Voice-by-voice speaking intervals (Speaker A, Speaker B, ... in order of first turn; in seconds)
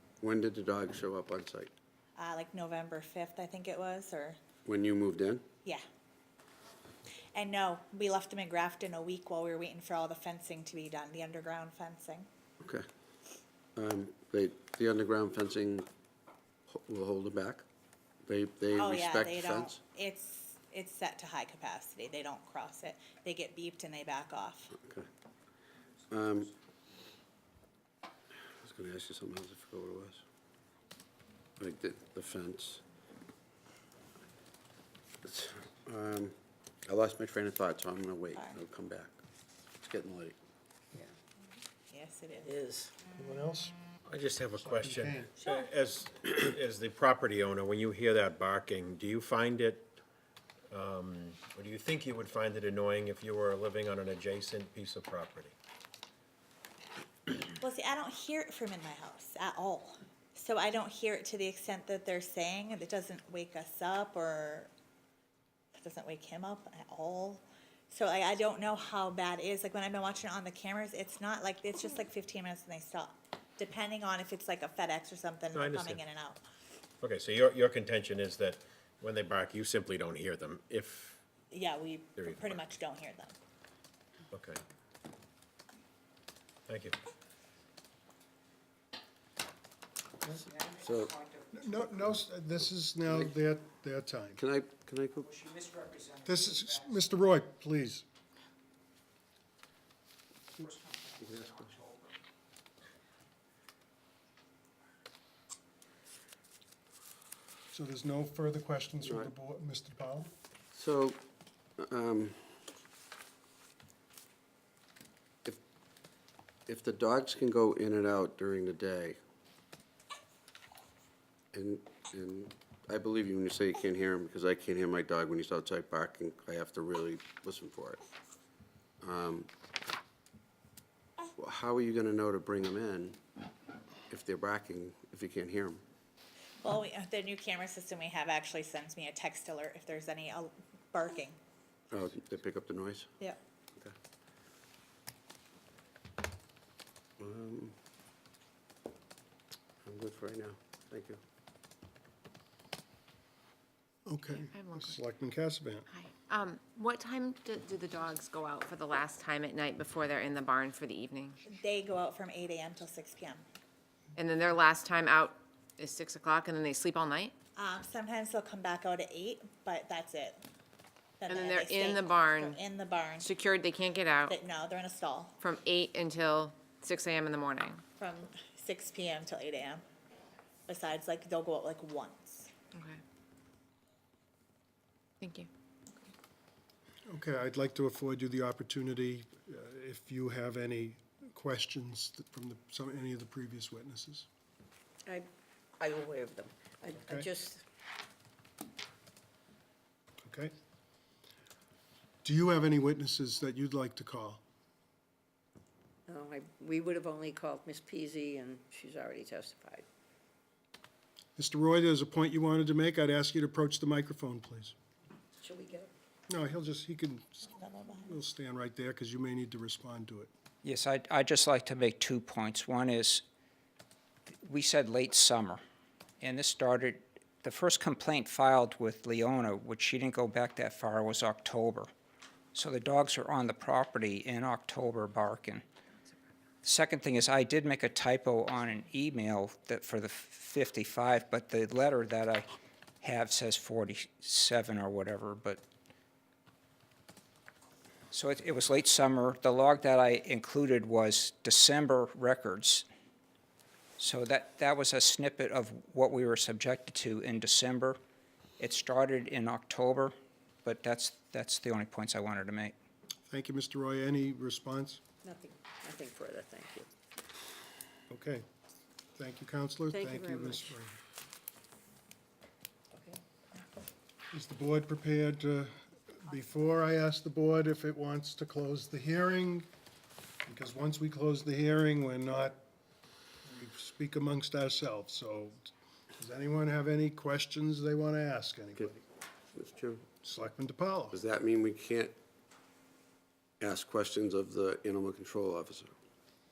Speaker A: 0.2-1.7, 4.7-5.4, 13.8-15.9, 16.7-17.6, 18.2-19.8, 24.8-25.1, 26.1-26.5, 28.6-30.2, 31.6-32.8, 35.2-36.3, 36.9-39.1, 39.8-40.4, 90.6-91.2, 93.1-93.3, 94.4-95.4, 101.2-101.7, 109.0-109.3, 110.7-111.2, 111.8-112.6, 116.7-119.2, 121.5-128.0, 129.0-129.5, 131.4-133.2, 134.1-135.8, 141.9-143.1, 147.2-147.7, 149.8-151.2, 289.5-290.0, 291.1-292.1, 293.6-295.9
Speaker B: 2.2-4.4, 7.3-12.3, 18.7-24.8, 41.9-42.5, 57.6-64.7, 65.8-76.4, 81.5-83.3, 136.6-141.4, 161.4-163.4, 167.6-170.4, 171.2-173.3, 174.3-175.4, 178.0-179.8, 180.7-182.5, 217.6-218.2
Speaker C: 42.3-43.0, 195.8-197.6, 206.1-209.8, 215.4-215.9, 265.2-266.9, 269.9-270.7, 272.9-273.2
Speaker D: 43.1-43.8, 44.6-45.3, 91.5-94.4, 96.2-98.0, 107.7-110.3, 154.1-155.9, 187.1-194.3, 196.9-197.3, 200.2-200.5, 202.2-204.4, 211.3-214.7, 216.3-220.3, 263.3-265.0, 268.1-268.4, 269.1-271.0, 274.3-279.7, 280.4-282.6, 283.4-289.0, 290.2-291.2
Speaker E: 44.0-49.9, 50.7-55.5, 75.5-76.0, 77.0-81.2, 82.2-82.7, 84.3-84.6, 86.7-87.0
Speaker F: 154.3-155.0, 155.9-161.4, 164.2-167.3, 171.3-172.6, 173.2-174.3, 175.4-177.8, 182.7-183.0, 185.2-185.5
Speaker G: 220.6-223.2, 224.4-225.6, 226.2-231.9, 232.5-235.6, 236.6-242.5, 243.0-245.6, 248.1-252.8, 254.0-258.0, 258.6-260.1, 260.6-262.7